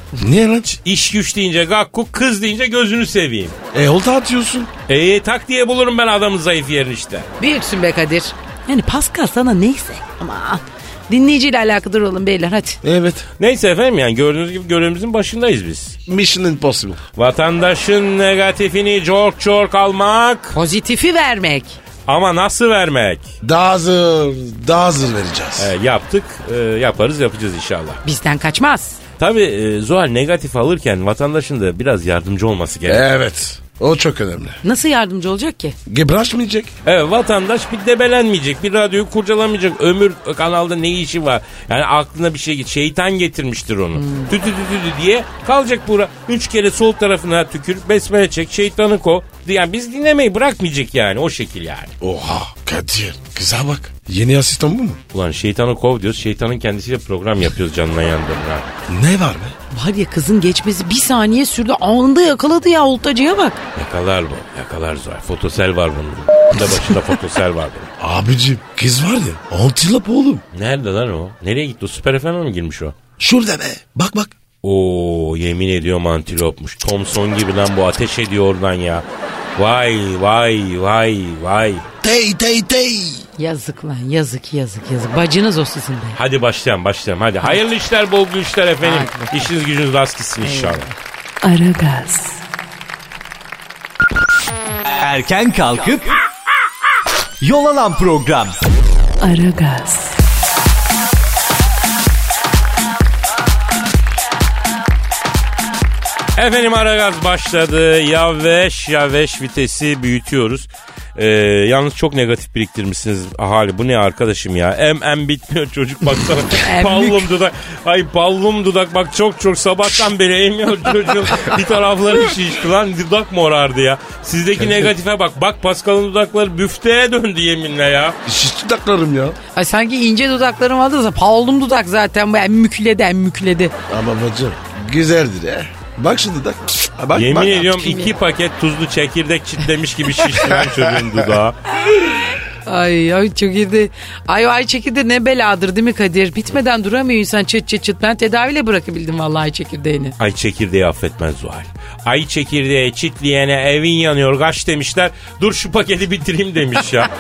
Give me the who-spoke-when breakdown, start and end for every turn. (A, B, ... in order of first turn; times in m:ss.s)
0:00.2-0:00.8 A
0:00.8-0:03.6 B
0:03.7-0:04.7 A
0:04.9-0:07.3 B
0:07.4-0:12.8 C
0:12.8-0:13.3 A
0:13.4-0:16.0 B
0:16.1-0:17.0 A
0:17.2-0:20.6 B
0:20.5-0:21.8 C
0:22.1-0:23.3 B
0:23.4-0:25.7 A
0:25.6-0:28.0 B
0:28.0-0:29.0 C
0:29.2-0:33.0 B
0:32.9-0:34.6 A
0:34.6-0:35.8 C
0:35.9-0:36.7 A
0:36.8-0:51.9 B
0:44.0-0:44.3 C
0:52.0-0:55.0 A
0:55.1-0:58.7 B
0:58.9-0:59.6 A
0:59.7-1:03.6 C
1:03.8-1:07.9 B
1:08.0-1:10.4 A
1:10.5-1:13.0 B
1:13.2-1:14.3 A
1:14.6-1:19.0 B
1:19.6-1:21.8 B
1:22.0-1:23.2 A
1:23.4-1:26.2 C
1:26.2-1:30.9 B
1:28.8-1:29.5 C
1:30.4-1:30.9 C
1:31.4-1:32.4 D
1:35.0-1:36.2 E
1:37.4-1:38.6 E
1:39.2-1:40.2 D
1:46.4-2:08.2 B
1:56.6-1:57.3 C
2:04.6-2:04.9 A
2:08.3-2:09.4 A
2:09.6-2:13.7 C
2:13.9-2:17.9 A
2:17.2-2:21.6 B
2:17.8-2:18.2 C
2:21.8-2:30.1 C
2:30.2-2:37.1 B